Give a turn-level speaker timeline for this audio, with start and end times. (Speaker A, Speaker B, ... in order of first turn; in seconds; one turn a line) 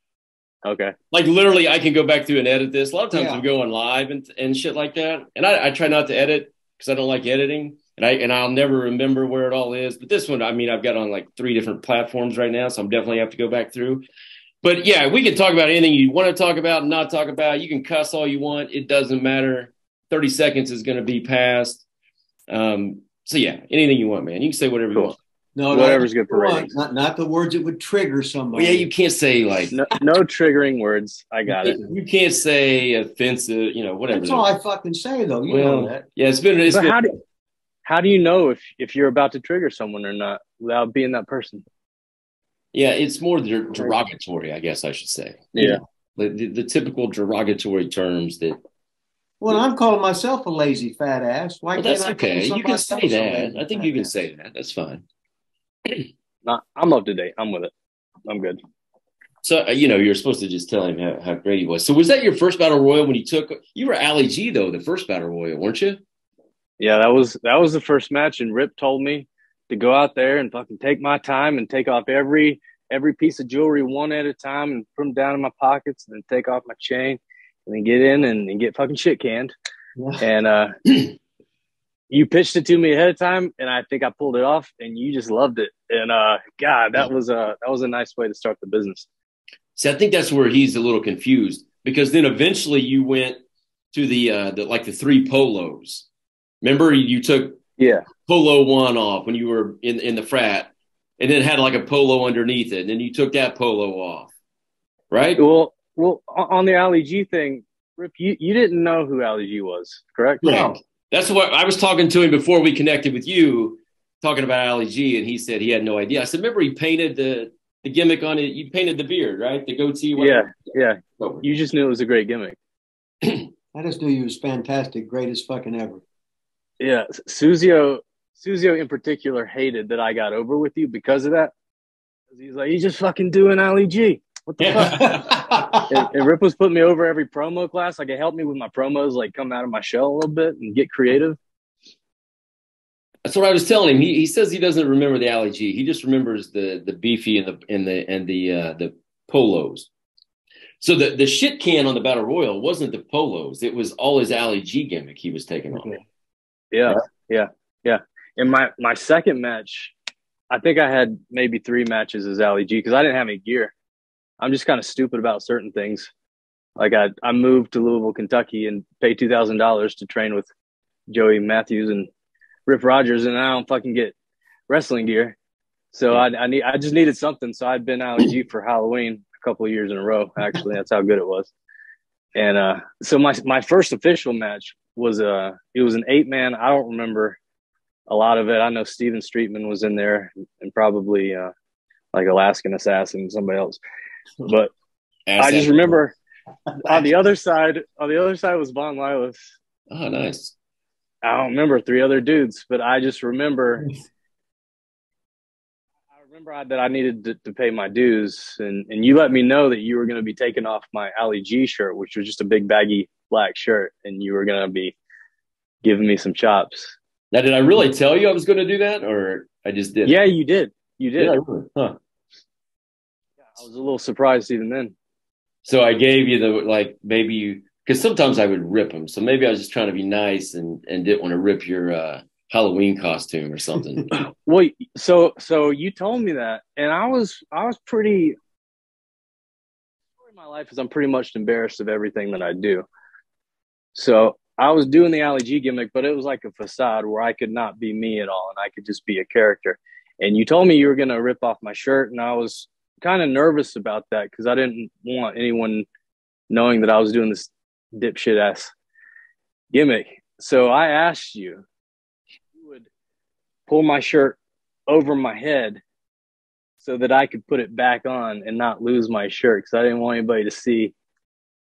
Speaker A: 0.7-0.9
Speaker B: 1.1-14.1
Speaker C: 3.1-3.4
Speaker B: 14.6-21.8
Speaker B: 22.5-25.2
Speaker C: 25.6-28.9
Speaker A: 25.7-26.7
Speaker B: 28.5-29.8
Speaker A: 29.7-31.8
Speaker B: 31.5-34.5
Speaker C: 34.1-36.0
Speaker B: 35.5-37.1
Speaker A: 36.7-37.1
Speaker A: 37.9-41.6
Speaker B: 42.7-48.6
Speaker C: 49.4-54.1
Speaker B: 51.8-55.0
Speaker A: 56.5-57.7
Speaker A: 58.3-58.6
Speaker B: 59.4-66.0
Speaker A: 66.8-79.5
Speaker A: 80.2-80.8
Speaker A: 82.1-89.1
Speaker B: 89.8-93.4
Speaker B: 93.9-96.1
Speaker B: 96.6-97.6
Speaker A: 97.8-98.1
Speaker B: 98.2-104.3
Speaker B: 105.1-105.4
Speaker A: 105.4-110.4
Speaker B: 110.4-120.5
Speaker C: 110.4-110.8
Speaker A: 120.2-122.6
Speaker B: 121.2-121.5
Speaker C: 123.7-126.0
Speaker A: 126.8-131.5
Speaker A: 132.3-135.1
Speaker B: 134.6-135.8
Speaker C: 134.7-135.9
Speaker A: 135.9-141.4
Speaker B: 143.2-149.9
Speaker B: 150.8-156.0
Speaker A: 156.7-159.9
Speaker A: 160.5-163.7
Speaker A: 164.4-166.1
Speaker A: 166.8-170.5
Speaker A: 171.1-172.1
Speaker A: 172.7-174.1
Speaker A: 174.7-175.4
Speaker A: 175.9-181.5
Speaker A: 182.3-187.4
Speaker A: 188.1-191.5
Speaker A: 192.1-193.8
Speaker A: 194.4-194.7
Speaker B: 195.3-196.0
Speaker A: 195.4-196.1
Speaker A: 196.8-199.5
Speaker B: 199.9-200.5
Speaker A: 201.2-203.9
Speaker A: 206.3-214.9
Speaker A: 215.8-217.0
Speaker B: 217.3-220.2
Speaker A: 220.1-221.4
Speaker B: 221.2-222.0
Speaker A: 223.5-224.9
Speaker B: 225.7-234.1
Speaker A: 234.1-238.4
Speaker A: 240.2-242.9
Speaker A: 243.9-255.9
Speaker A: 256.5-258.7
Speaker A: 259.7-261.6
Speaker A: 262.6-262.9
Speaker A: 263.7-264.4
Speaker A: 264.9-265.8
Speaker A: 266.8-270.9